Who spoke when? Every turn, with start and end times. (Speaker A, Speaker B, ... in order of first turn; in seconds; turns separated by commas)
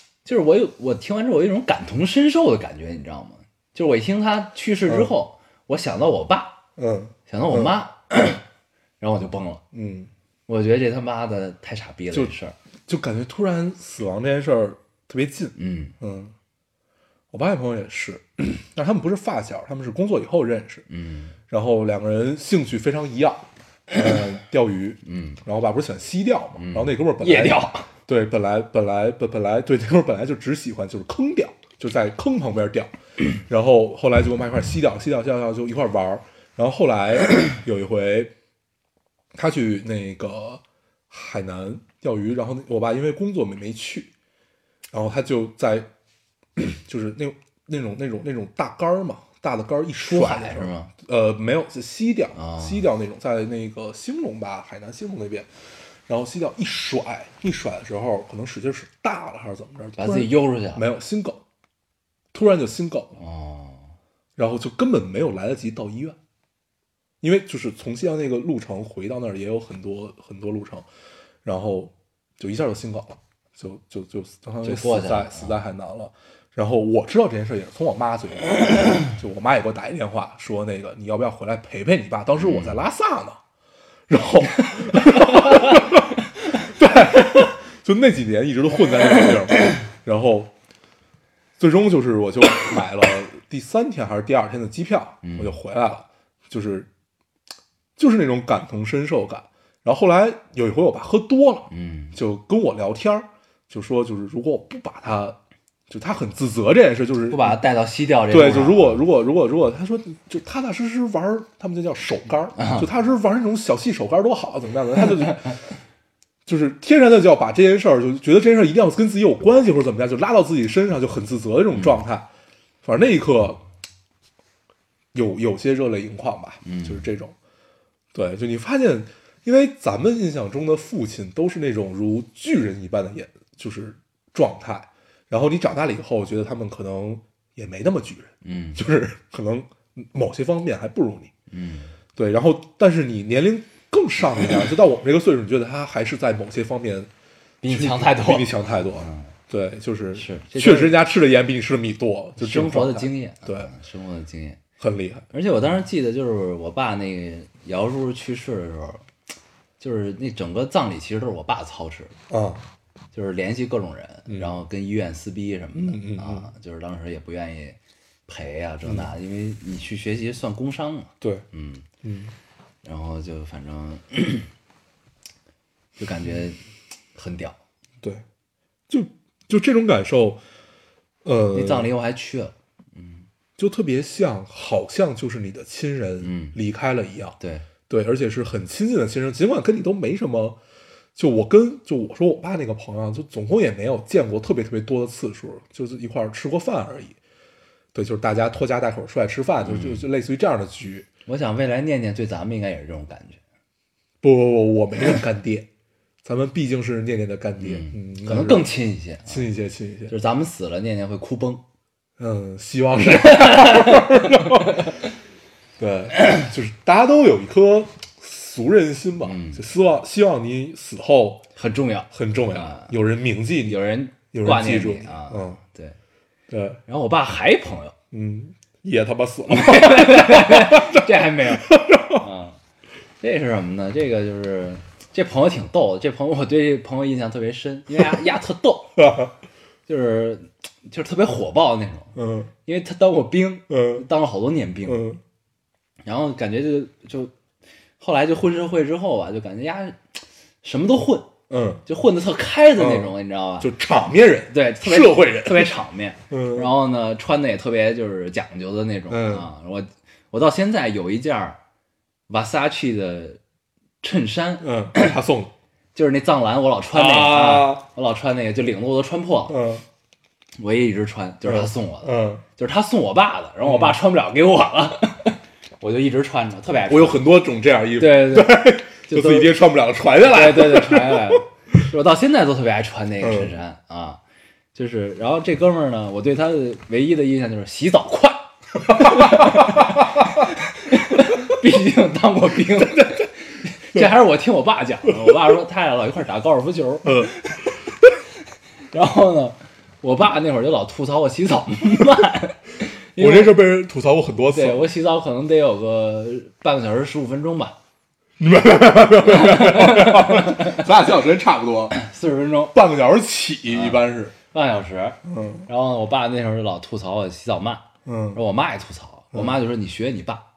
Speaker A: 0.2-6.6, Speaker B: 6.8-7.8, Speaker A: 7.3-8.4, Speaker A: 9.0-9.6, Speaker B: 9.7-10.1, Speaker A: 10.5-12.6, Speaker B: 12.9-16.3, Speaker A: 15.6-15.9, Speaker B: 17.3-20.9, Speaker A: 20.9-21.4, Speaker B: 21.5-38.3, Speaker A: 25.1-25.4, Speaker A: 26.6-27.9, Speaker B: 39.4-44.1, Speaker B: 44.9-45.9, Speaker B: 46.6-55.5, Speaker A: 50.0-50.9, Speaker A: 52.4-52.9, Speaker B: 56.1-61.4, Speaker A: 60.0-60.9, Speaker B: 62.3-63.2, Speaker A: 63.2-63.9, Speaker B: 64.4-66.2, Speaker B: 67.2-70.9, Speaker B: 71.4-83.4, Speaker A: 74.6-75.6, Speaker A: 82.4-82.8, Speaker B: 84.1-90.5, Speaker B: 91.6-96.9, Speaker A: 95.2-95.6, Speaker B: 98.0-107.6, Speaker A: 101.7-102.2, Speaker A: 107.3-109.0, Speaker B: 108.3-115.6, Speaker A: 112.6-112.9, Speaker B: 116.5-122.3, Speaker A: 121.7-122.0, Speaker B: 122.8-123.6, Speaker B: 125.1-127.3, Speaker A: 126.6-127.1, Speaker B: 128.1-141.3, Speaker A: 138.4-138.8, Speaker A: 141.5-141.9, Speaker B: 142.2-147.1, Speaker A: 147.6-149.3, Speaker B: 147.7-153.7, Speaker A: 150.2-151.0, Speaker A: 152.4-154.6, Speaker B: 154.8-155.3, Speaker A: 155.3-159.1, Speaker A: 159.8-162.2, Speaker B: 162.3-162.6, Speaker A: 163.1-167.8, Speaker B: 164.3-164.6, Speaker B: 165.8-166.5, Speaker A: 168.3-171.8, Speaker B: 168.8-169.1, Speaker B: 172.0-172.3, Speaker A: 172.8-174.5, Speaker A: 176.0-176.6, Speaker A: 177.2-177.6, Speaker B: 178.9-180.4, Speaker B: 181.2-181.9, Speaker A: 181.5-183.3, Speaker B: 183.6-187.4, Speaker A: 186.2-186.6, Speaker A: 187.4-187.7, Speaker B: 187.9-190.6, Speaker B: 191.2-197.2, Speaker B: 197.9-201.1, Speaker A: 199.6-200.1, Speaker A: 201.3-203.4, Speaker B: 204.2-205.7, Speaker B: 206.2-208.7, Speaker A: 207.6-209.4, Speaker B: 209.3-210.2, Speaker A: 210.1-211.6, Speaker B: 212.2-214.9, Speaker A: 213.1-214.9, Speaker B: 215.8-221.4, Speaker A: 219.2-219.6, Speaker A: 221.6-222.9, Speaker B: 222.1-225.6, Speaker A: 223.7-226.0, Speaker B: 226.5-226.8, Speaker A: 226.9-227.9, Speaker B: 228.1-232.2, Speaker A: 229.5-232.6, Speaker A: 233.2-239.0, Speaker B: 239.0-239.3, Speaker A: 239.9-242.1, Speaker B: 242.2-242.5, Speaker A: 242.7-245.1, Speaker B: 243.7-244.1, Speaker B: 244.9-245.2, Speaker A: 246.0-247.3, Speaker A: 248.0-250.0, Speaker A: 250.6-251.3, Speaker B: 251.5-251.8, Speaker A: 251.9-253.7, Speaker B: 252.8-255.8, Speaker A: 254.5-261.6, Speaker B: 256.3-256.7, Speaker B: 259.1-259.5, Speaker A: 262.3-263.4, Speaker A: 264.0-265.1, Speaker B: 264.6-265.5, Speaker A: 265.9-269.6, Speaker B: 266.9-267.9, Speaker B: 269.5-269.9, Speaker A: 270.6-277.2, Speaker B: 271.4-272.4, Speaker B: 273.6-274.0, Speaker B: 276.9-281.4, Speaker A: 278.0-279.6, Speaker A: 280.2-284.2, Speaker B: 283.2-283.6, Speaker A: 284.8-297.6, Speaker B: 288.9-290.0, Speaker B: 292.7-293.3, Speaker B: 297.0-297.4, Speaker A: 298.9-303.6, Speaker B: 303.2-304.9, Speaker A: 304.5-307.8, Speaker B: 308.4-312.0, Speaker A: 309.3-310.7, Speaker A: 311.9-312.8, Speaker B: 312.7-314.4, Speaker A: 313.7-320.5, Speaker B: 315.2-315.7, Speaker B: 318.1-318.4